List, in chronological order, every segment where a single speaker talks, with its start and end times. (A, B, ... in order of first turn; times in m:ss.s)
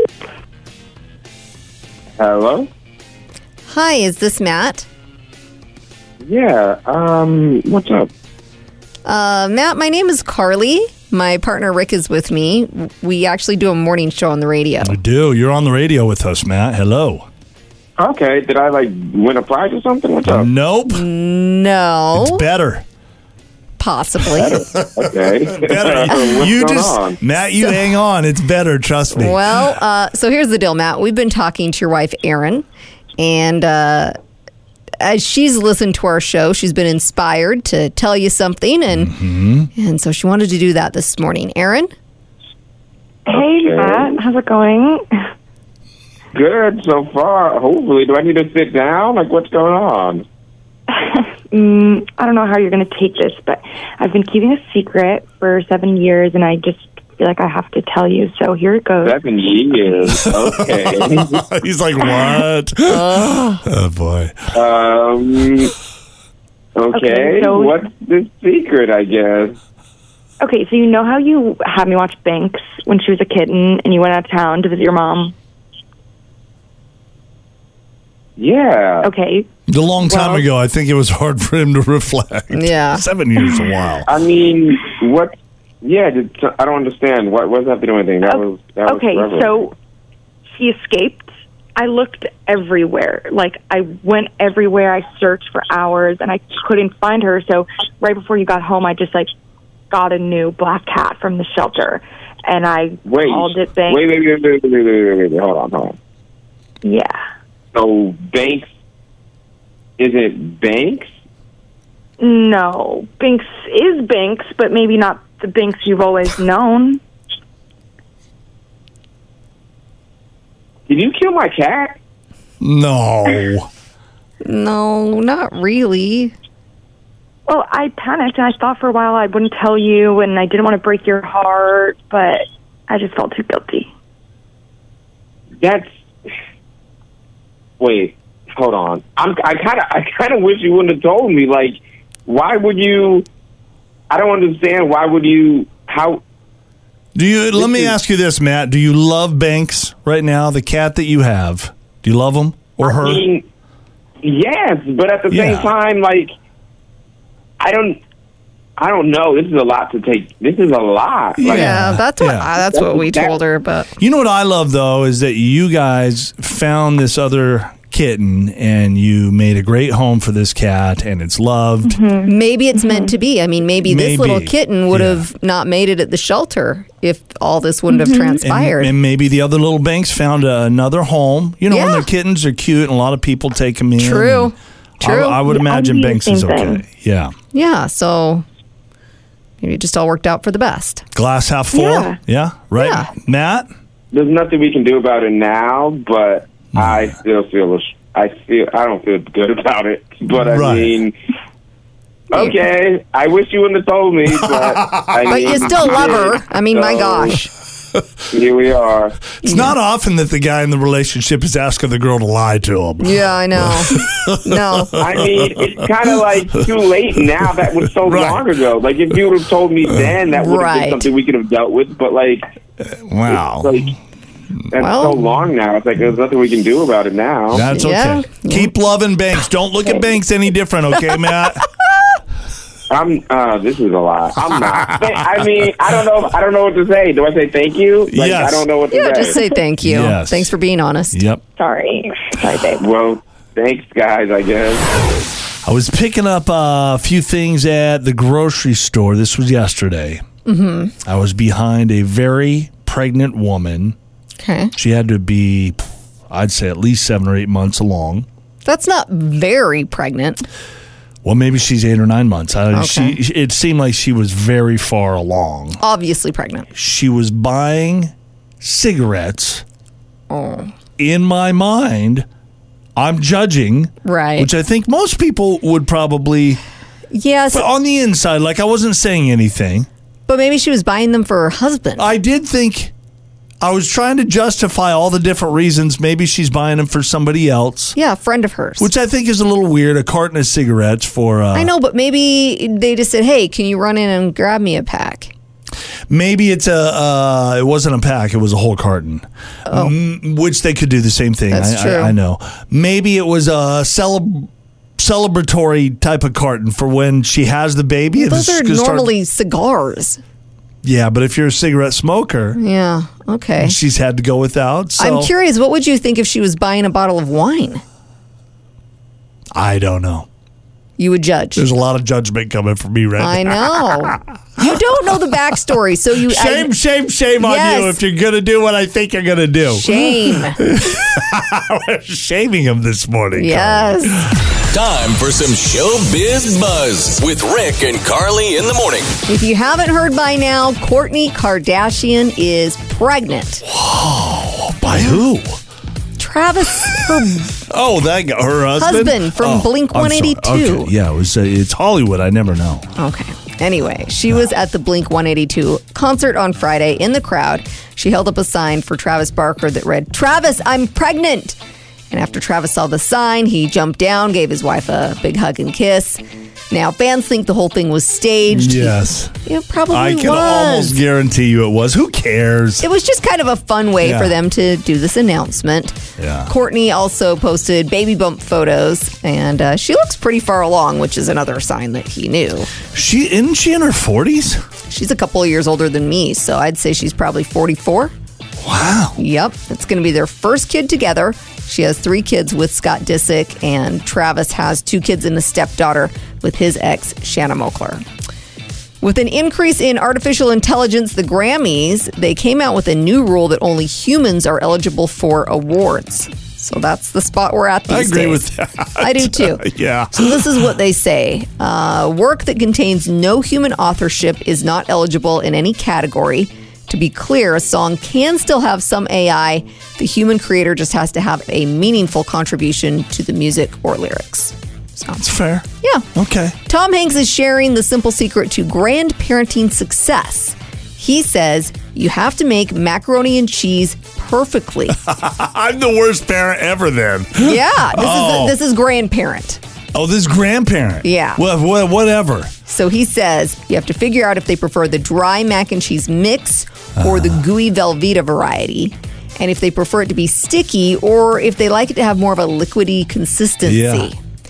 0:02.2-0:02.7 A
0:03.7-0:04.9 B
0:06.2-0:08.1 A
0:09.1-0:15.0 B
0:14.8-0:17.3 C
0:18.0-0:20.5 A
0:20.3-0:21.1 C
0:20.9-0:22.5 B
0:22.1-0:22.8 C
0:23.8-0:24.7 B
0:24.4-0:27.2 A
0:24.8-0:29.7 C
0:26.1-0:26.4 B
0:29.2-0:32.6 B
0:33.2-0:34.2 B
0:35.0-0:39.2 B
0:38.9-0:39.7 C
0:39.7-0:41.9 B
0:43.3-0:44.2 A
0:43.3-0:45.0 D
0:46.3-0:50.2 A
0:50.9-0:59.2 D
0:59.0-1:01.4 A
1:00.1-1:04.5 C
1:02.9-1:03.6 B
1:04.5-1:05.7 A
1:06.8-1:09.6 A
1:06.9-1:07.8 D
1:10.4-1:15.3 D
1:18.4-1:19.1 A
1:19.0-1:19.5 D
1:19.7-1:24.1 C
1:20.1-1:20.4 D
1:22.5-1:23.0 B
1:24.1-1:29.6 A
1:28.2-1:29.7 D
1:30.5-1:39.3 D
1:39.9-1:44.1 D
1:43.1-1:46.0 A
1:46.8-1:47.2 D
1:47.7-1:48.7 A
1:50.0-1:51.1 A
1:52.2-1:57.0 D
2:00.9-2:02.0 A
2:02.6-2:03.7 C
2:04.4-2:06.3 B
2:07.5-2:13.9 D
2:15.6-2:15.9 A
2:17.8-2:23.3 A
2:24.1-2:26.2 A
2:27.2-2:33.2 C
2:27.6-2:27.9 A
2:32.8-2:33.4 A
2:34.2-2:36.3 A
2:35.3-2:35.7 C
2:37.6-2:38.0 A
2:38.8-2:41.9 A
2:41.4-2:42.5 C
2:41.5-2:43.9 B
2:42.7-2:43.4 A
2:44.0-2:52.0 C
2:51.9-2:53.1 D
2:52.2-2:58.9 B
2:53.8-2:55.2 C
2:57.9-2:58.4 D
2:58.4-3:07.3 C
3:01.7-3:02.1 B
3:04.0-3:05.4 B
3:05.5-3:06.8 D
3:07.5-3:08.4 B
3:09.6-3:11.1 B
3:11.1-3:13.7 C
3:11.7-3:12.2 D
3:12.8-3:13.1 B
3:14.1-3:21.1 A
3:16.8-3:17.2 C
3:20.4-3:21.0 C
3:22.3-3:27.4 A
3:24.3-3:26.1 C
3:25.3-3:27.5 B
3:28.3-3:29.2 A
3:29.4-3:36.6 C
3:29.4-3:29.7 B
3:33.0-3:35.0 B
3:35.0-3:42.5 A
3:37.4-3:38.5 C
3:39.9-3:40.1 C
3:40.3-3:41.1 B
3:42.9-3:43.9 C
3:43.3-3:44.0 A
3:44.7-3:47.7 A
3:44.8-3:45.2 B
3:47.5-3:51.7 C
3:47.7-3:48.7 B
3:52.9-3:59.4 A
3:54.5-3:55.6 C
3:58.1-3:58.7 C
3:58.9-4:01.2 B
3:59.8-4:00.5 C
4:01.1-4:01.4 C
4:01.6-4:02.9 D
4:02.7-4:04.9 A
4:05.6-4:10.2 C
4:10.5-4:11.0 B
4:11.0-4:14.0 C
4:14.4-4:14.7 B
4:14.8-4:18.3 C
4:18.6-4:20.5 B
4:21.2-4:25.8 C
4:22.7-4:23.2 B
4:25.8-4:26.7 B
4:26.8-4:29.6 C
4:30.3-4:30.7 B
4:31.0-4:32.3 C
4:33.0-4:36.6 C
4:34.0-4:34.5 B
4:37.1-4:37.7 B
4:37.5-4:39.9 C
4:40.3-4:42.1 B
4:42.0-4:42.9 C
4:43.6-4:48.0 C
4:48.0-4:48.9 B
4:48.8-4:51.7 C
4:51.5-4:55.3 B
4:56.1-5:09.1 C
4:59.7-5:00.0 B
5:01.5-5:02.2 B
5:08.2-5:10.2 B
5:10.8-5:12.6 C
5:12.6-5:13.8 B
5:13.6-5:15.3 C
5:15.0-5:17.8 B
5:19.5-5:20.3 C
5:21.0-5:21.7 B
5:21.6-5:25.5 C
5:23.2-5:26.7 B
5:26.2-5:34.4 C
5:27.4-5:28.0 B
5:29.7-5:30.6 B
5:33.4-5:34.2 B
5:34.7-5:39.1 E
5:39.3-5:43.7 B
5:43.6-5:45.6 C
5:46.2-5:47.6 B
5:47.6-5:52.9 C
5:48.8-5:50.9 B
5:53.0-6:01.6 B
6:02.1-6:11.0 B
6:08.5-6:09.4 C
6:09.9-6:12.8 C
6:12.8-6:22.7 B
6:14.0-6:14.4 C
6:16.2-6:16.5 C
6:22.9-6:24.6 C
6:24.9-6:28.1 B
6:28.6-6:29.2 C
6:29.2-6:38.0 B
6:39.0-6:48.4 B
6:47.9-6:50.7 C
6:49.0-7:05.2 B
7:05.2-7:06.6 C
7:06.7-7:15.0 B
7:14.9-7:18.6 C
7:17.4-7:19.6 B
7:19.9-7:22.5 C
7:21.0-7:21.4 B
7:22.7-7:34.2 B
7:27.0-7:27.4 C
7:33.6-7:34.1 C